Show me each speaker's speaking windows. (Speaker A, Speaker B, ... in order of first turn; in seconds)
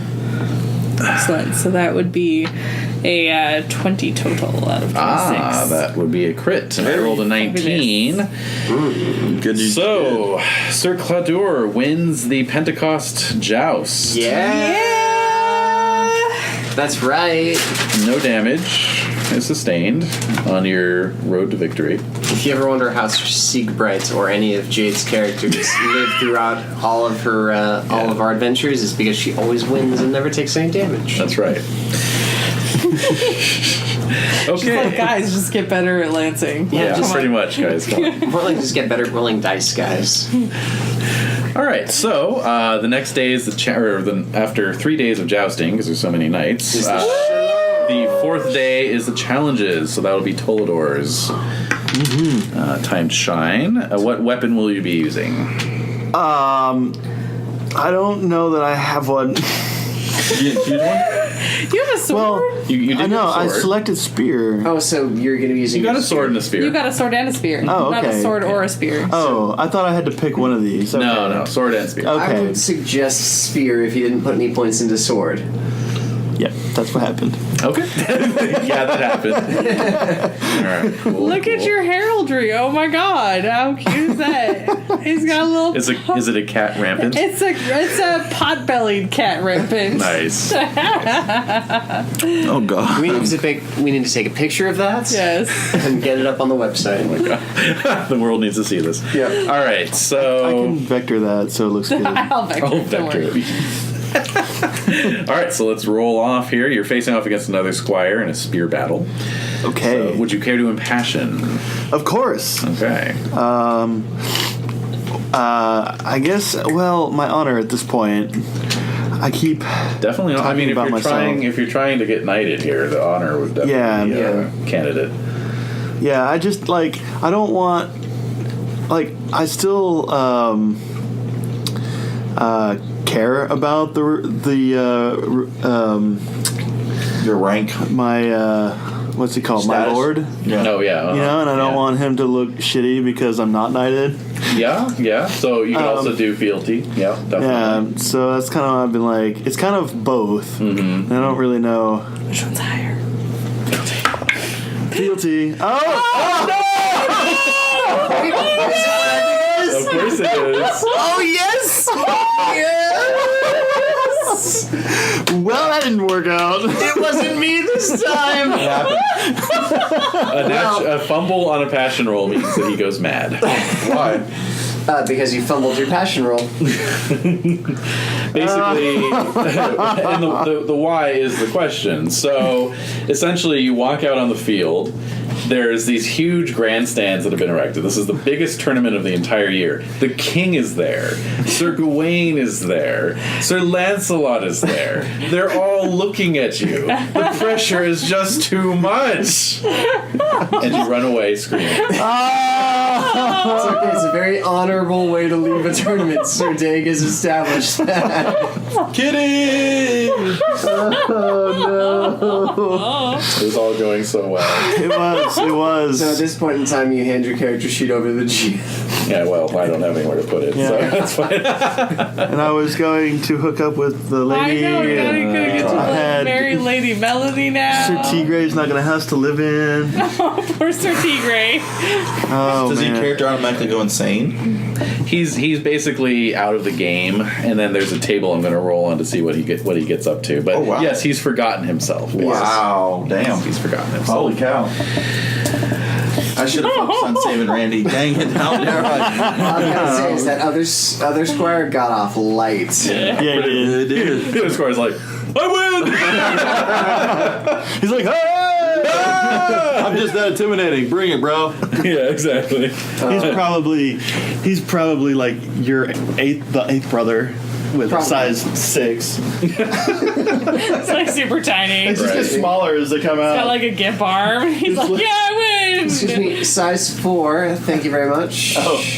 Speaker A: 1.1-2.5, 3.0-5.8, 6.8-8.2, 14.3-16.0, 34.5-38.3, 61.2-62.6, 66.5-69.2, 81.0-86.4, 87.0-92.2, 95.1-95.8, 101.9-103.3, 152.3-153.0, 211.6-213.2, 224.2-228.3, 229.9-232.1, 246.6-247.4, 270.2-272.1, 273.2-276.5
Speaker B: 4.9-8.3, 9.5-14.3, 17.9-22.0, 27.9-28.3, 31.1-31.7, 34.4-35.1, 36.7-38.3, 41.5-51.3, 52.5-55.5, 62.7-63.7, 65.7-66.8, 70.9-72.2, 77.6-81.7, 85.7-87.3, 89.9-90.6, 97.0-100.8, 102.6-103.6, 104.3-109.1, 109.8-111.6, 112.6-113.2, 120.0-125.1, 140.6-141.8, 144.5-147.8, 150.6-151.4, 159.7-160.9, 168.6-169.1, 170.2-174.1, 177.0-177.7, 178.3-199.8, 200.4-202.0, 213.1-214.8, 219.0-222.2, 224.9-226.1, 235.0-242.7, 243.2-244.3, 252.8-257.5, 258.9-260.0, 261.7-263.4, 269.5-270.1, 271.9-272.4
Speaker C: 6.8-7.2, 9.2-10.3, 60.3-61.1, 92.4-93.4, 137.2-137.8, 139.6-140.7, 168.6-168.9, 173.7-174.2, 208.9-210.6, 232.4-234.4, 240.5-241.0, 242.1-243.4, 244.0-244.7, 246.3-250.2, 252.8-254.4, 256.2-256.6, 259.3-261.8
Speaker D: 8.7-9.4, 14.0-16.0, 16.7-17.7, 22.3-31.2, 36.7-37.3, 38.1-40.3, 46.7-47.7, 64.6-66.4, 72.1-75.4, 79.4-80.2, 92.9-97.2, 124.1-124.5, 157.8-159.9, 162.1-163.8, 166.9-168.9, 170.3-170.9, 174.8-176.5, 203.4-208.7, 210.6-211.4, 215.9-218.6, 242.2-242.6, 249.3-253.1, 263.0-263.4, 267.9-268.4, 272.0-272.6, 275.8-278.9
Speaker E: 51.9-52.5, 56.1-57.0, 57.7-59.6, 62.1-64.7, 67.6-72.6, 76.4-77.4, 78.4-81.0, 100.2-102.3, 109.6-110.3, 111.9-112.7, 113.3-114.1, 115.3-118.4, 119.2-121.5, 123.6-124.3, 126.0-127.9, 128.9-130.8, 132.3-136.2, 137.8-144.2, 145.7-146.4, 147.3-152.1, 154.9-170.5, 178.3-180.4, 201.9-204.1, 210.5-213.1, 214.5-216.2, 220.5-221.1, 222.2-226.7, 227.7-230.0, 232.3-233.3, 248.7-250.3, 253.1-254.2, 256.6-259.8, 263.0-269.2, 271.8-273.7, 274.6-275.1